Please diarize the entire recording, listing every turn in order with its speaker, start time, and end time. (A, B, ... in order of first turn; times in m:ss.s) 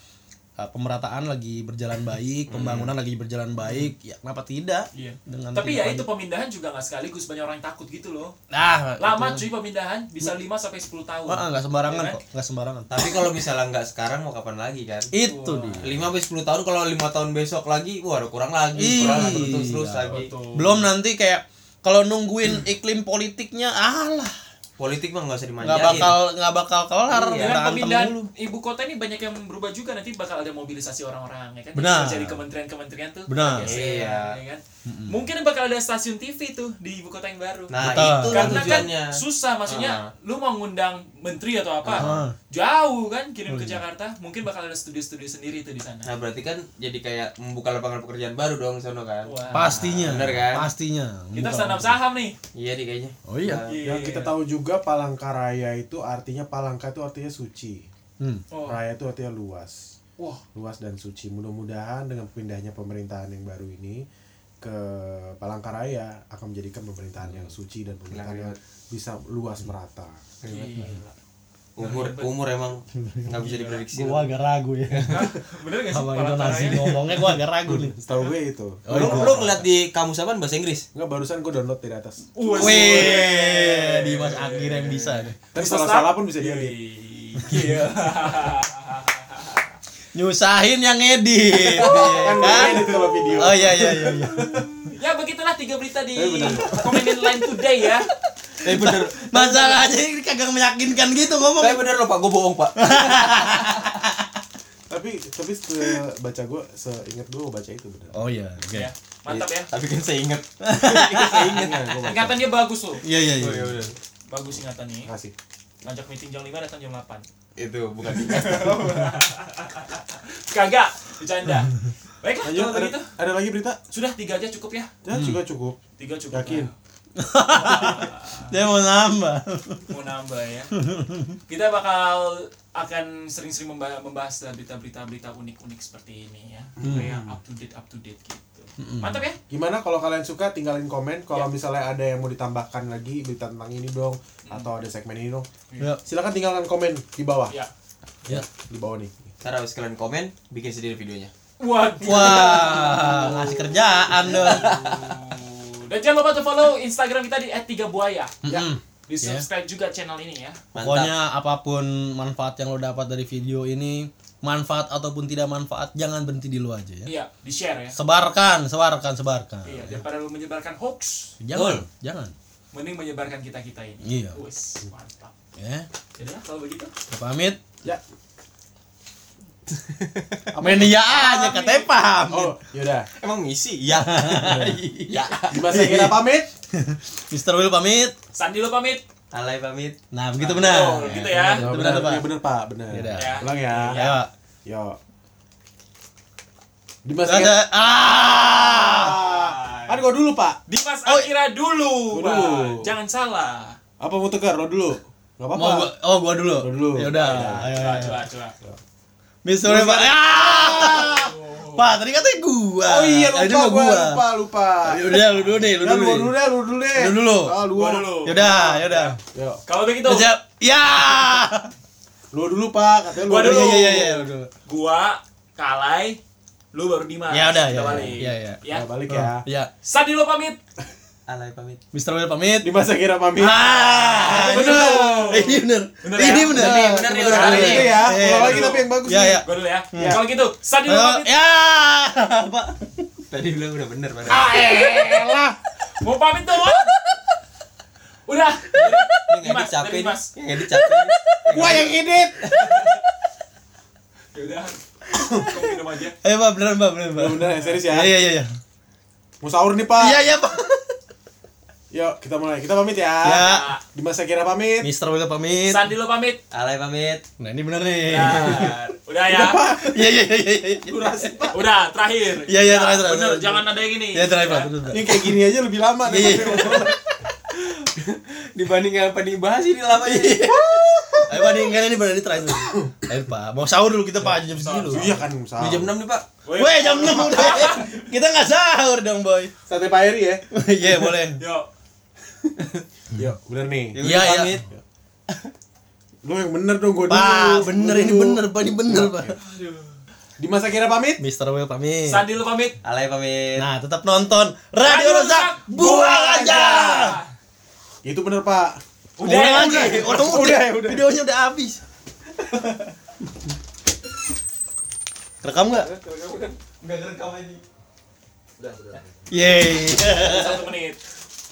0:00.6-0:06.1 A
0:02.5-0:02.9 B
0:03.6-0:03.9 C
0:04.9-0:08.3 C
0:08.5-0:09.5 A
0:09.0-0:12.2 C
0:11.3-0:13.2 A
0:12.9-0:15.1 B
0:15.1-0:16.1 A
0:15.1-0:15.8 C
0:15.8-0:20.3 B
0:18.8-0:24.3 A
0:18.9-0:19.4 C
0:20.0-0:20.9 C
0:24.8-0:26.2 B
0:25.6-0:28.3 A
0:27.1-0:27.6 B
0:27.4-0:46.1 C
0:31.7-0:32.4 A
0:33.3-0:33.8 A
0:33.6-0:34.4 B
0:34.8-0:35.2 A
0:37.7-0:40.1 B
0:37.8-0:38.9 A
0:41.8-0:42.2 B
0:42.0-0:42.3 A
0:43.5-0:43.8 A
0:46.0-0:50.7 B
0:49.2-0:50.2 C
0:49.5-0:52.0 A
0:51.3-0:52.4 C
0:52.5-0:53.8 B
0:53.3-0:53.6 A
0:53.7-0:54.3 C
0:53.8-0:57.9 D
0:58.5-0:58.8 C
0:58.6-0:59.9 D
1:00.2-1:00.4 C
1:00.5-1:04.0 D
1:04.6-1:10.2 D
1:08.1-1:08.6 B
1:10.4-1:10.7 B
1:10.4-1:11.1 C
1:11.8-1:14.3 B
1:11.8-1:12.4 C
1:13.0-1:15.4 A
1:14.9-1:15.2 B
1:15.1-1:17.0 C
1:15.9-1:18.0 A
1:17.7-1:19.6 D
1:18.8-1:19.6 A
1:18.9-1:20.9 B
1:20.9-1:22.3 D
1:22.3-1:29.6 C
1:22.5-1:25.4 A
1:25.5-1:26.7 D
1:27.4-1:27.9 A
1:30.1-1:34.7 A
1:31.8-1:32.8 B
1:31.9-1:34.6 D
1:31.9-1:32.5 C
1:34.9-1:38.1 C
1:36.1-1:37.1 D
1:38.6-1:39.7 B
1:38.6-1:41.8 A
1:41.6-1:43.9 B
1:42.8-1:44.3 A
1:44.9-1:48.2 D
1:48.1-1:48.9 A
1:48.7-1:49.7 C
1:49.3-1:52.1 B
1:50.6-1:51.6 A
1:51.2-1:52.4 D
1:52.0-1:53.0 C
1:53.0-1:53.8 A
1:53.4-1:54.0 B
1:54.3-1:55.1 C
1:55.0-1:55.3 D
1:55.8-1:57.2 C
1:57.6-1:58.9 B
1:58.1-2:03.1 C
2:02.4-2:03.8 D
2:03.9-2:04.9 C
2:05.0-2:05.8 D
2:05.1-2:05.4 A
2:06.0-2:06.7 C
2:06.3-2:06.7 D
2:07.2-2:09.9 A
2:07.5-2:08.5 C
2:09.9-2:10.7 C
2:10.8-2:11.4 A
2:11.5-2:19.4 C
2:16.8-2:17.3 D
2:16.8-2:17.1 A
2:18.8-2:19.2 A
2:19.5-2:25.5 D
2:26.0-2:27.5 D
2:28.2-2:29.3 D
2:29.4-2:31.3 B
2:31.6-2:38.4 C
2:32.0-2:34.8 A
2:34.4-2:35.2 B
2:38.4-2:39.4 A
2:39.1-2:40.6 C
2:40.7-2:41.1 B
2:40.8-2:47.1 A
2:47.0-2:48.0 C
2:47.9-2:50.0 A
2:49.6-2:51.4 C
2:51.4-2:52.3 A
2:51.5-2:51.8 B
2:52.7-2:55.3 C
2:54.0-2:54.4 A
2:55.6-2:55.9 A
2:56.2-2:56.9 C
2:57.1-2:57.6 A
2:59.8-3:00.4 B
3:00.5-3:01.0 D
3:00.6-3:02.6 A
3:01.1-3:01.9 C
3:02.3-3:03.1 D
3:03.2-3:05.9 B
3:03.9-3:04.8 A
3:05.5-3:06.5 D
3:05.6-3:08.1 A
3:08.3-3:09.0 C
3:09.3-3:10.0 B
3:10.1-3:12.3 A
3:10.4-3:11.7 C
3:11.1-3:14.0 D
3:12.9-3:14.3 A
3:13.1-3:14.2 C
3:14.6-3:15.0 D
3:17.0-3:17.6 D
3:17.2-3:19.2 A
3:18.7-3:20.6 D
3:19.0-3:20.0 C
3:20.7-3:23.8 C
3:21.0-3:21.3 A
3:22.1-3:22.9 D
3:24.0-3:25.9 D
3:25.5-3:28.2 A
3:26.5-3:28.8 D
3:27.1-3:28.5 C
3:29.4-3:34.2 A
3:29.6-3:31.1 D
3:30.4-3:31.9 C
3:32.8-3:39.6 D
3:34.8-3:36.4 A
3:36.9-3:37.6 A
3:37.7-3:40.3 C
3:38.2-3:39.2 A
3:40.0-3:41.7 A
3:42.3-3:44.1 D
3:43.2-3:46.2 C
3:43.3-3:44.5 A
3:46.7-3:48.9 C
3:47.3-3:49.7 A
3:48.7-3:49.4 D
3:49.8-3:50.6 C
3:51.3-3:51.8 B
3:51.9-3:52.7 A
3:52.6-3:55.5 D
3:53.4-4:00.2 A
3:54.0-3:58.9 C
3:56.5-3:58.1 B
3:56.5-4:00.2 D
3:59.4-4:01.3 C
4:00.8-4:03.1 A
4:03.3-4:04.5 B
4:04.3-4:05.5 D
4:04.4-4:05.3 C
4:05.9-4:06.9 C
4:08.3-4:10.3 C
4:08.8-4:12.7 B
4:10.6-4:12.2 A
4:11.5-4:12.7 D
4:14.3-4:16.2 C
4:15.1-4:15.6 D
4:16.2-4:18.5 A
4:17.2-4:18.1 D
4:19.4-4:20.2 D
4:19.9-4:20.9 A
4:21.9-4:24.9 D
4:23.2-4:23.7 A
4:23.3-4:23.8 C
4:24.8-4:25.8 A
4:25.7-4:26.4 C
4:26.5-4:27.2 B
4:27.4-4:28.8 A
4:28.1-4:29.6 C
4:29.3-4:30.0 D
4:29.7-4:31.5 A
4:30.9-4:31.6 D
4:31.5-4:34.7 C
4:32.5-4:35.4 A
4:34.9-4:36.9 D
4:36.0-4:37.0 A
4:36.2-4:36.8 C
4:37.6-4:40.5 B
4:40.0-4:45.2 A
4:40.5-4:41.7 D
4:42.7-4:42.9 D
4:44.5-4:45.2 C
4:44.9-4:45.9 D
4:45.6-4:46.2 B
4:46.4-4:48.0 C
4:46.5-4:49.5 A
4:49.7-4:50.4 D
4:50.5-4:51.4 A
4:51.4-4:51.7 C
4:53.1-4:54.0 D
4:53.9-4:54.6 B
4:54.0-4:54.6 A
4:56.2-4:59.3 D
4:57.1-4:59.4 A
4:59.4-4:59.9 C
5:00.4-5:01.2 D
5:01.2-5:02.2 A
5:02.0-5:02.8 C
5:02.8-5:03.7 B
5:03.6-5:07.2 A
5:04.8-5:07.3 C
5:08.0-5:08.8 D
5:09.2-5:10.1 C
5:09.2-5:11.8 A
5:09.6-5:11.0 D
5:15.4-5:15.9 A
5:15.7-5:17.6 B
5:18.6-5:19.0 B
5:19.3-5:20.7 A
5:20.1-5:21.0 C